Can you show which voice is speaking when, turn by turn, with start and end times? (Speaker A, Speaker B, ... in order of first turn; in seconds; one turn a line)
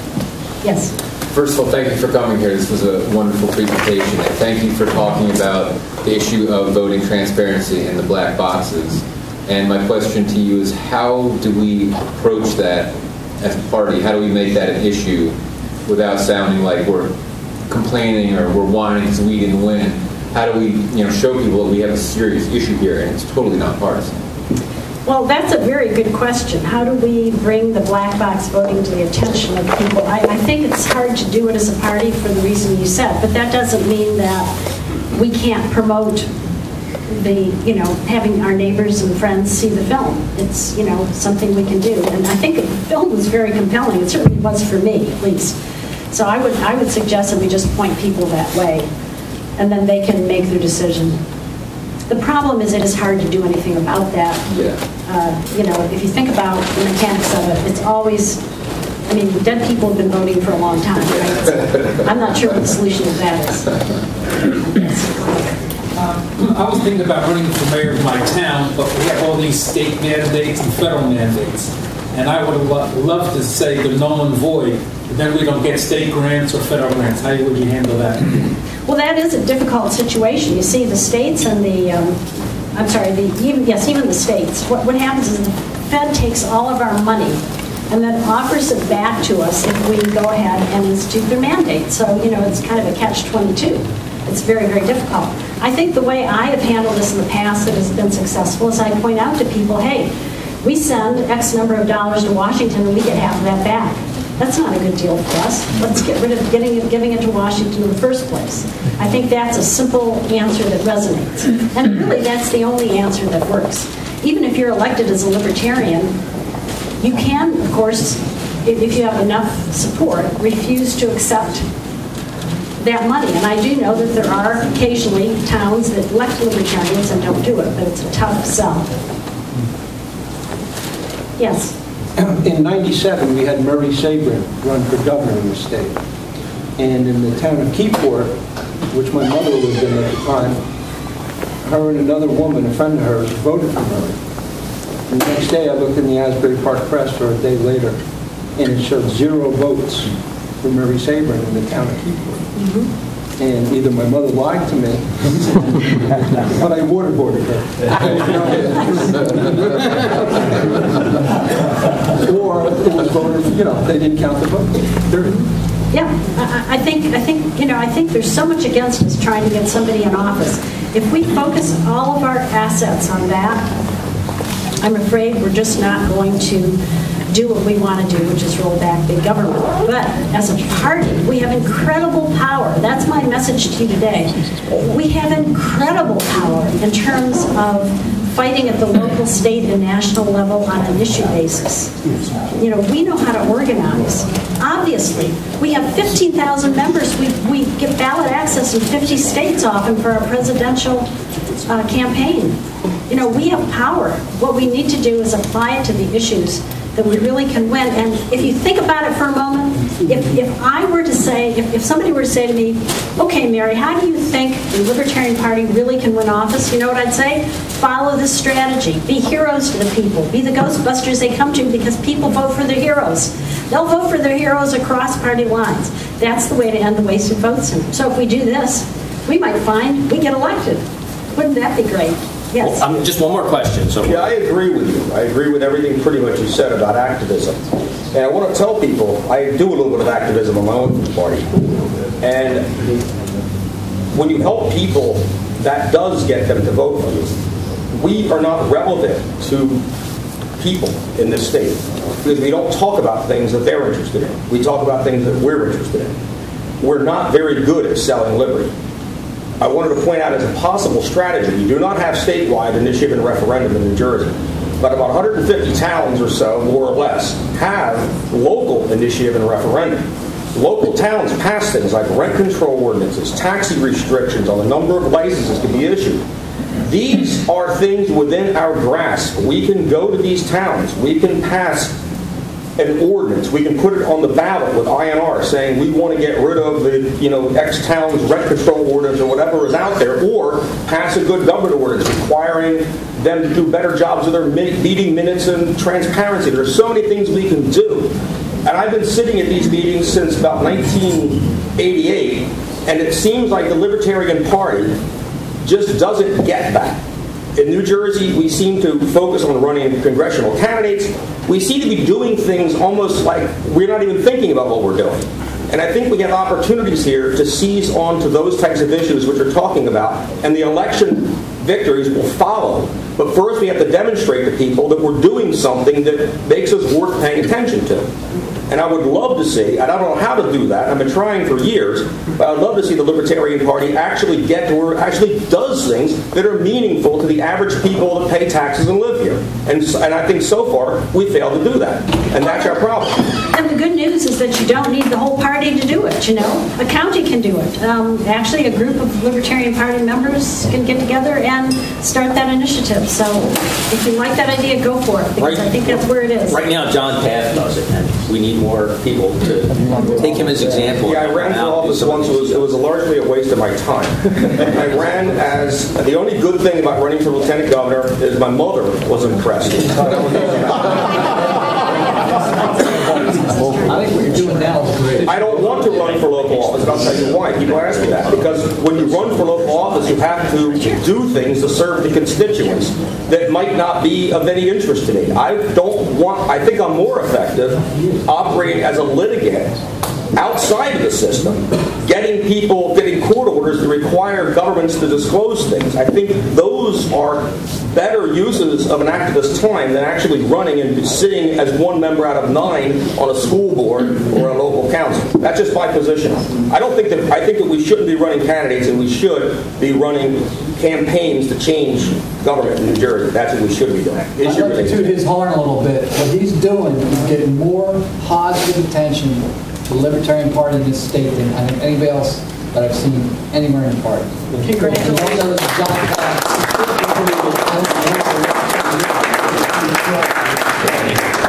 Speaker A: 0.6-0.9
Speaker B: 1.3-15.3
Speaker B: 15.9-17.1
Speaker B: 17.7-24.1
Speaker A: 25.1-34.5
Speaker A: 35.1-36.3
Speaker A: 37.1-45.6
Speaker A: 46.1-48.9
Speaker A: 49.6-51.2
Speaker A: 52.1-54.5
Speaker A: 55.0-58.4
Speaker A: 59.1-63.8
Speaker A: 64.5-65.6
Speaker C: 66.0-78.5
Speaker A: 78.9-82.2
Speaker A: 82.8-100.1
Speaker A: 100.6-116.2
Speaker A: 117.0-121.6
Speaker A: 122.8-128.9
Speaker A: 131.4-131.8
Speaker D: 132.2-136.0
Speaker D: 136.8-138.4
Speaker D: 138.9-140.6
Speaker D: 141.7-144.2
Speaker D: 145.1-148.0
Speaker D: 148.6-152.4
Speaker A: 152.6-152.9
Speaker D: 153.4-161.2
Speaker D: 162.1-165.3
Speaker A: 165.3-173.7
Speaker A: 174.8-176.8
Speaker A: 177.3-191.9
Speaker A: 192.6-201.1
Speaker A: 201.7-202.6
Speaker A: 203.1-230.8
Speaker A: 231.4-232.8
Speaker E: 232.6-234.3
Speaker F: 234.1-237.6
Speaker F: 238.1-241.5
Speaker F: 242.2-243.0
Speaker F: 244.1-247.3
Speaker F: 247.9-249.8
Speaker F: 250.6-256.2
Speaker F: 256.8-258.7
Speaker F: 259.6-276.2
Speaker F: 276.9-281.9
Speaker F: 282.8-304.9
Speaker F: 305.6-307.0
Speaker F: 307.6-328.1
Speaker F: 328.7-343.2
Speaker A: 342.4-342.8
Speaker A: 343.4-356.6
Speaker E: 356.5-362.7
Speaker F: 361.0-371.1
Speaker G: 372.6-375.6
Speaker F: 375.2-389.8
Speaker F: 390.3-415.2
Speaker G: 414.4-430.6
Speaker A: 424.6-425.4